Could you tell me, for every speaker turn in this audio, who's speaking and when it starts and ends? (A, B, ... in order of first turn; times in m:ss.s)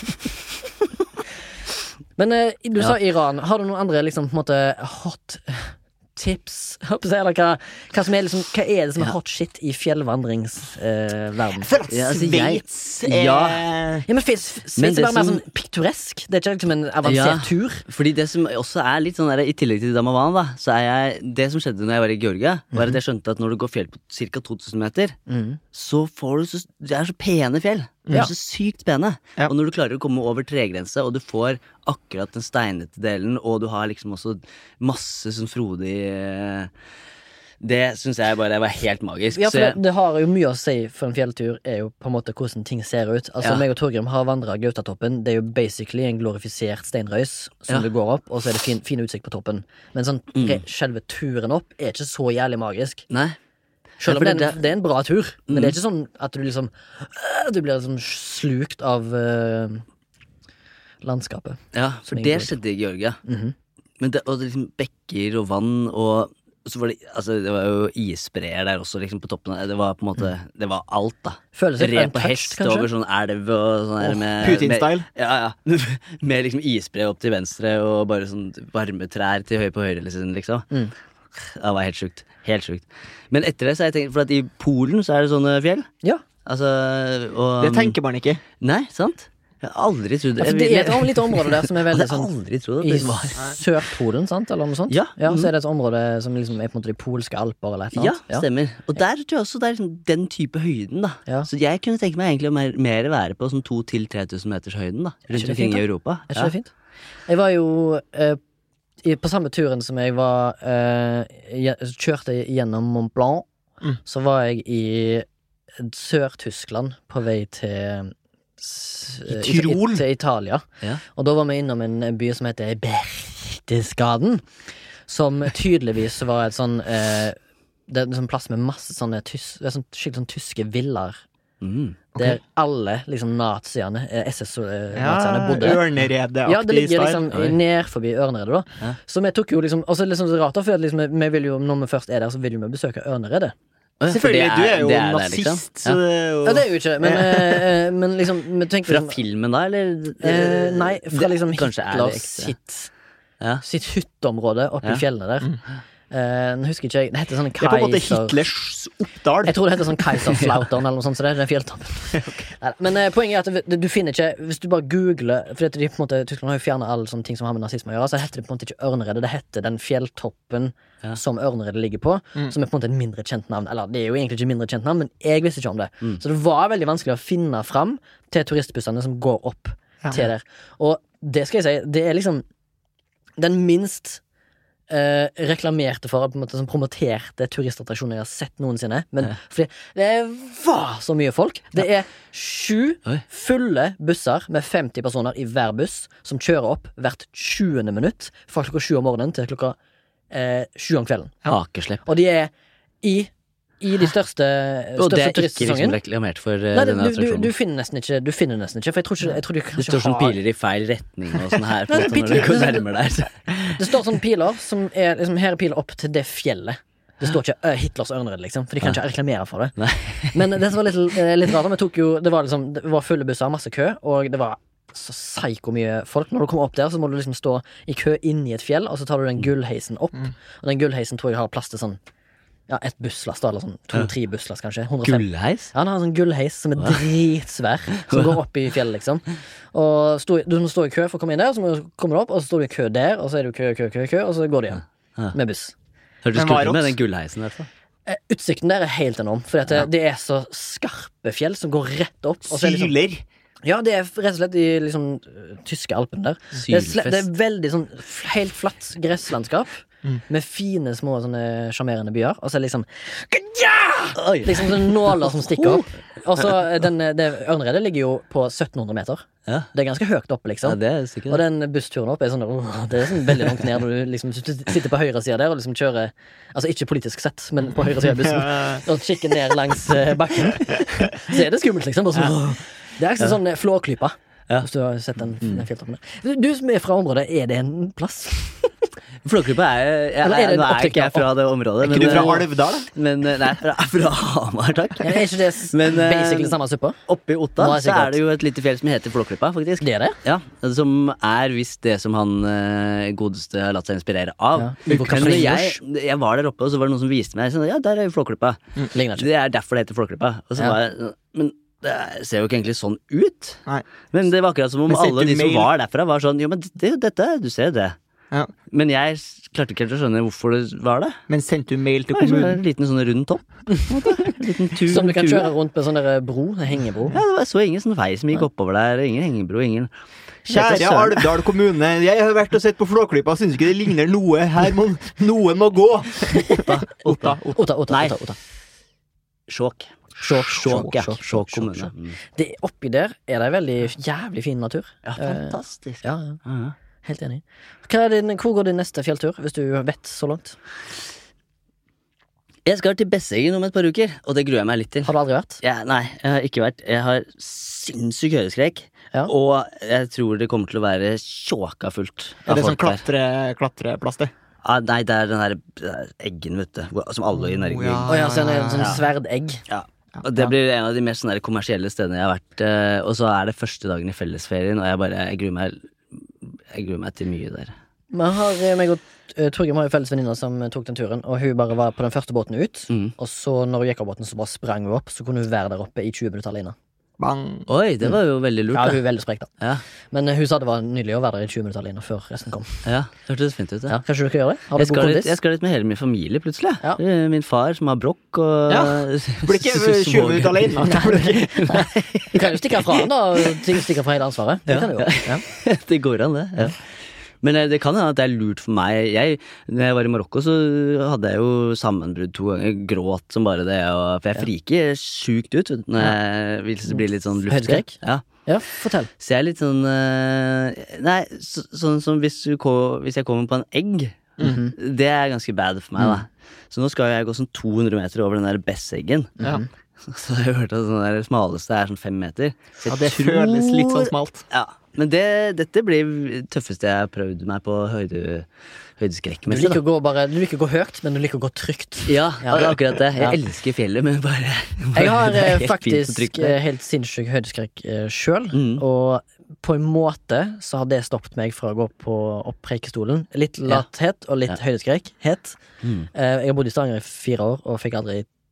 0:02.2-0:11.7 A
0:11.6-0:14.0 B
0:11.9-0:13.6 C
0:14.1-0:17.8 A
0:14.8-0:15.4 C
0:17.0-0:25.2 C
0:25.3-0:25.6 A
0:25.7-0:36.7 C
0:37.6-0:39.8 C
0:39.3-0:53.1 A
0:50.3-0:50.6 C
0:53.1-0:53.4 C
0:54.0-0:59.8 A
0:54.0-0:54.6 C
0:55.5-0:55.8 C
1:01.0-1:02.5 A
1:01.7-1:03.2 C
1:03.2-1:03.5 A
1:04.0-1:20.7 C
1:11.5-1:12.9 A
1:14.4-1:15.0 B
1:21.4-1:25.9 C
1:26.4-1:28.0 C
1:27.6-1:28.4 B
1:28.6-1:33.5 C
1:30.4-1:38.4 A
1:34.9-1:35.5 C
1:37.9-1:46.5 C
1:45.3-1:46.7 A
1:47.3-1:48.4 A
1:49.0-1:53.5 A
1:54.0-1:55.2 A
1:55.8-2:04.4 A
1:59.3-2:00.0 B
2:05.1-2:07.4 A
2:07.9-2:11.2 A
2:11.6-2:12.0 C
2:12.1-2:15.9 A
2:14.9-2:17.2 B
2:16.4-2:23.5 A
2:24.0-2:26.0 C
2:24.1-2:27.6 B
2:26.4-2:29.2 A
2:28.9-2:32.5 C
2:30.2-2:32.9 A
2:33.6-2:35.5 A
2:36.1-2:38.4 A
2:37.6-2:39.5 B
2:39.4-3:02.4 A
3:03.4-3:04.2 A
3:04.9-3:19.8 A
3:20.3-3:21.4 A
3:21.4-3:22.0 C
3:22.0-3:26.0 A
3:25.0-3:27.5 C
3:26.7-3:30.4 A
3:29.8-3:34.0 C
3:31.9-3:32.9 A
3:33.8-3:39.8 A
3:39.8-3:40.4 C
3:40.3-3:52.0 A
3:52.7-4:05.7 A
3:55.0-3:55.7 C
3:58.1-3:58.4 C
4:06.2-4:07.7 C
4:06.3-4:07.0 B
4:08.1-4:12.9 A
4:12.5-4:13.2 B
4:13.6-4:48.7 A
4:16.6-4:17.2 C
4:24.2-4:25.8 C
4:30.6-4:31.4 C
4:38.3-4:38.8 B
4:49.2-4:56.6 C
4:50.2-4:51.3 A
4:51.8-4:52.9 B
4:52.0-4:52.4 A
4:55.0-4:57.0 A
4:57.1-5:08.6 C
4:57.6-4:58.2 A
4:59.8-5:00.2 A
5:04.6-5:05.8 A
5:08.9-5:09.3 A
5:09.2-5:13.6 C
5:14.1-5:18.0 C
5:14.9-5:15.7 B
5:18.7-5:21.2 C
5:21.3-5:22.6 B
5:22.1-5:25.5 C
5:23.7-5:24.3 A
5:24.8-5:27.2 A
5:27.1-5:29.9 C
5:30.5-5:31.3 A
5:30.5-5:37.5 B
5:36.4-5:36.6 A
5:36.6-5:38.1 C
5:37.5-5:38.4 A
5:39.5-5:42.2 C
5:40.2-5:46.4 A
5:45.0-5:46.7 C
5:47.0-5:50.6 A
5:52.6-5:55.1 C
5:55.0-5:55.6 A
5:55.6-6:03.0 C
6:02.5-6:04.3 B
6:04.6-6:08.2 C
6:07.6-6:09.0 B
6:08.1-6:09.6 A
6:09.7-6:17.7 C
6:18.1-6:26.7 A
6:27.2-6:27.7 B
6:27.7-6:29.0 C
6:28.7-6:29.5 A
6:30.1-6:32.8 A
6:32.8-6:34.0 C
6:33.9-6:35.4 A
6:34.7-6:40.8 C
6:38.7-6:41.8 B
6:40.8-6:45.4 A
6:41.6-6:42.4 C
6:44.7-6:46.8 C
6:47.4-6:58.2 C
6:56.9-6:59.1 A
6:59.2-7:09.4 C
7:04.4-7:04.7 A
7:09.4-7:09.6 A
7:10.0-7:18.5 C
7:12.8-7:14.4 B
7:19.0-7:19.8 C
7:19.5-7:23.4 A
7:22.1-7:26.6 C
7:24.9-7:35.6 A
7:28.5-7:28.8 C
7:35.8-7:36.1 C
7:36.1-7:38.3 A